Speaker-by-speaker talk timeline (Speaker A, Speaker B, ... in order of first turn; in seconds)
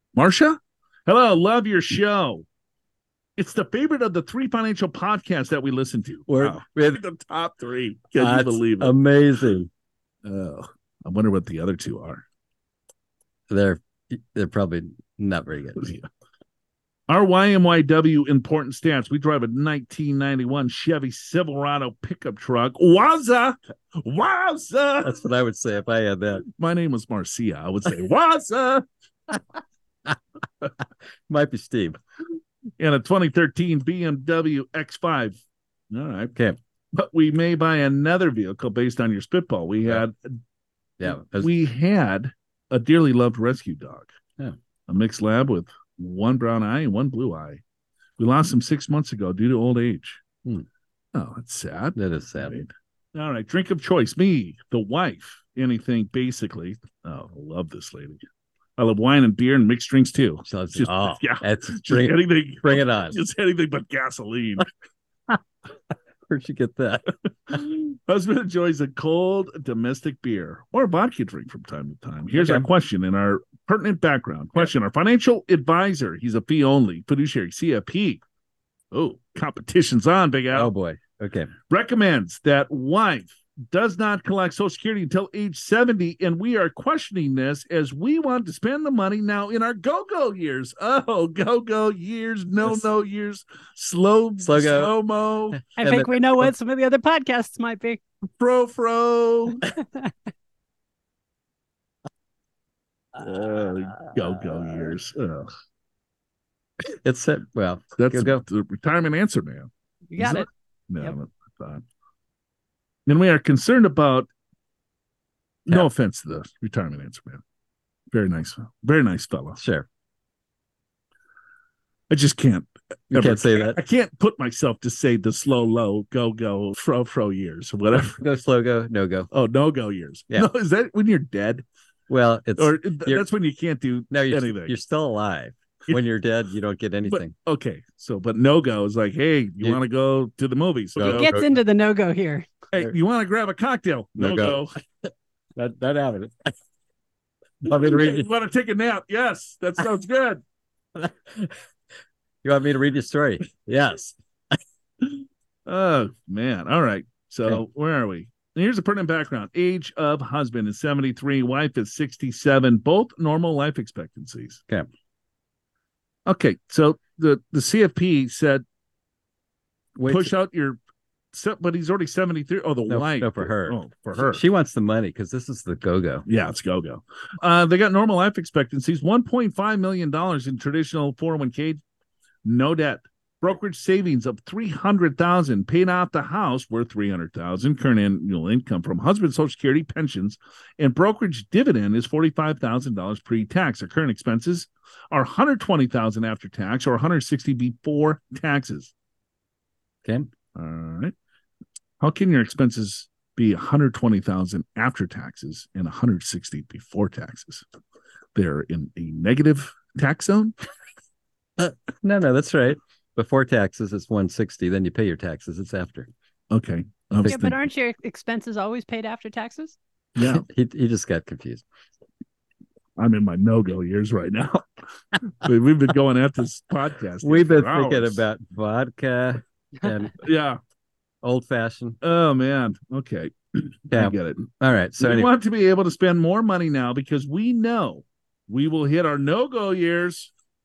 Speaker A: 0.1-2.4, 3.4-9.0, 10.2-12.2, 15.8-16.1, 17.1-25.2, 26.6-28.8, 32.8-35.4, 35.9-36.3, 36.9-40.4, 41.1-44.1, 44.9-47.6, 48.2-50.2, 51.1-58.2, 58.8-64.7, 67.5-78.2, 78.9-80.7, 81.7-95.7, 98.4-99.7, 103.1-105.5, 108.0-111.8, 113.1-114.3, 115.7-117.4, 118.1-119.6, 122.1-128.2, 129.3-131.6, 132.6-134.7, 137.1-141.4, 142.7-144.7, 147.7-150.4, 155.7-164.6, 166.2-168.6, 170.1-170.8, 171.3-174.4, 176.3-181.8, 182.4-198.9, 200.6-201.1, 202.0-207.6, 208.3-210.6, 216.5-217.6, 220.2-220.4, 223.0-224.6, 225.2-228.2, 230.2-230.6, 232.0-240.3
Speaker B: 6.3-7.0, 8.2-9.7, 13.5-15.9, 25.0-26.4, 30.8-32.0, 41.0-41.5, 52.0-52.6, 60.4-63.2, 66.3-67.6, 72.4-72.7, 80.5-81.5, 94.4-94.9, 95.5-96.5, 104.2-104.9, 106.9-108.4, 119.6-119.9, 123.1-123.8, 128.2-129.3, 132.1-133.2, 134.1-137.3, 140.9-141.6, 144.2-144.6, 145.6-146.5, 147.6-148.3, 150.9-151.5, 152.4-154.6, 169.9-170.3, 172.9-176.2, 211.6-216.1, 220.2-221.6, 227.2-230.2, 231.2-232.0, 233.9-235.3
Speaker C: 95.8-98.0, 110.1-110.5, 141.1-142.5, 217.2-219.8